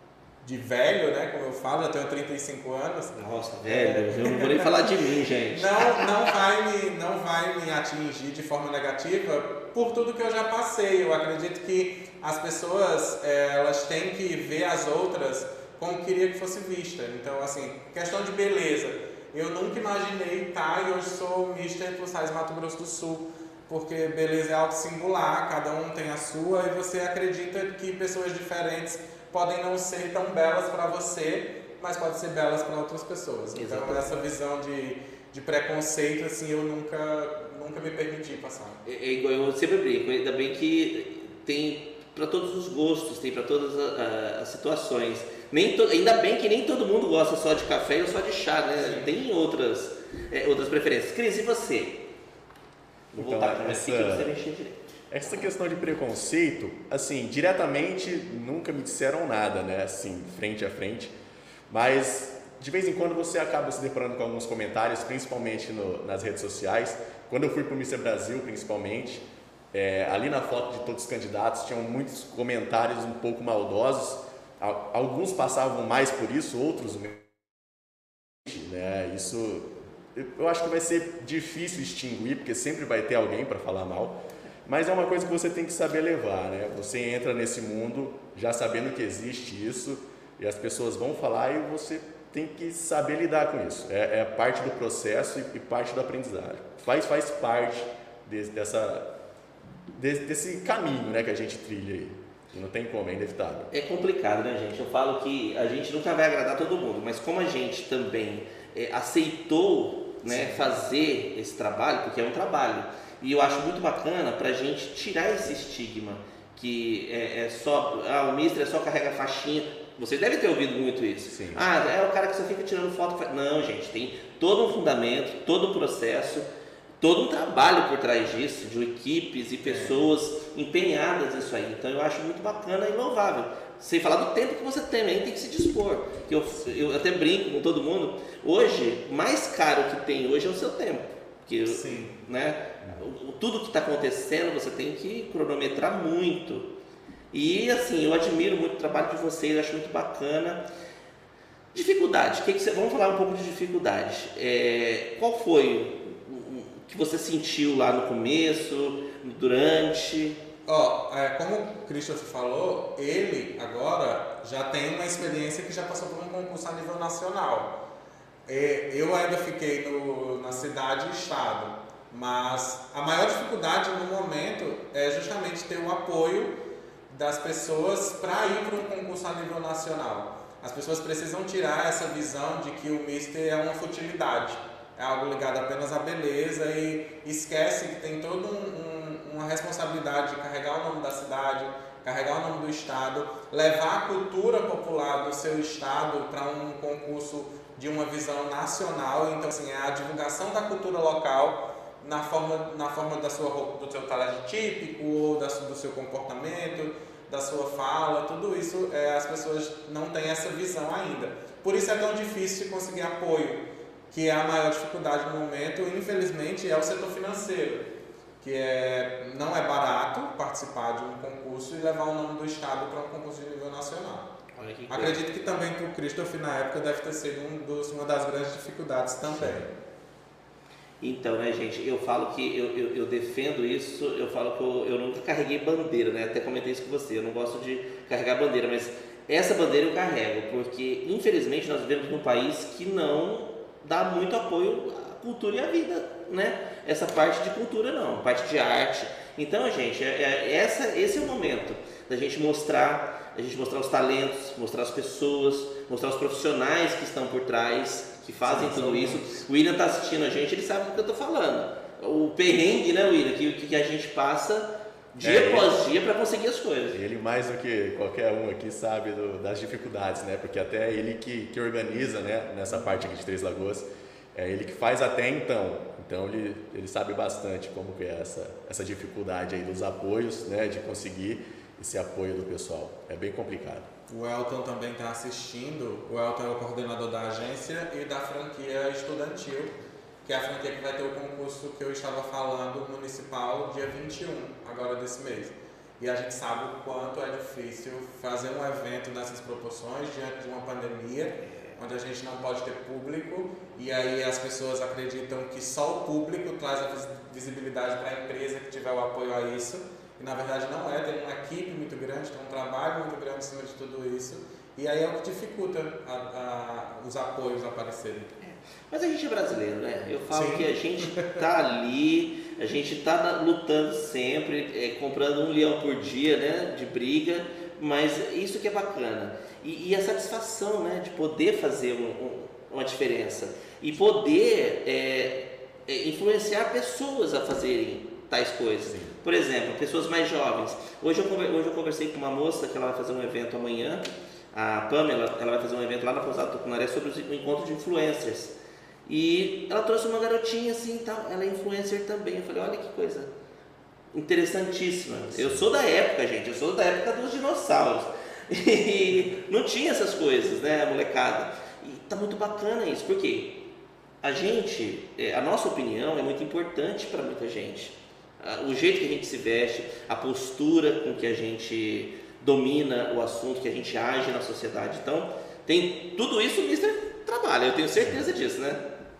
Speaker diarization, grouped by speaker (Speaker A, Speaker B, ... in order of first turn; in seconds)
Speaker A: 0.4-38.8, 48.8-49.1, 110.3-110.5, 129.6-130.1, 141.7-142.2, 160.7-167.8, 168.5-176.6, 177.1-217.9, 218.4-224.3, 224.9-229.7, 258.5-259.1, 284.1-289.7, 290.2-318.3, 320.3-321.4
Speaker B: 3.1-6.3, 33.5-34.0, 38.8-52.0, 53.1-55.0, 103.7-126.5, 127.0-146.7, 147.3-150.6, 151.7-160.4, 224.5-225.2, 231.0-267.0, 301.4-301.8, 318.4-348.5, 349.1-353.3, 354.1-363.6, 364.2-378.8
Speaker C: 53.1-54.3, 55.1-61.1, 61.7-77.3, 78.4-99.1, 99.9-103.7, 121.3-121.7, 229.3-229.7, 258.6-259.2, 265.2-265.7, 266.9-283.9, 338.9-339.1, 355.3-355.7, 378.0-378.3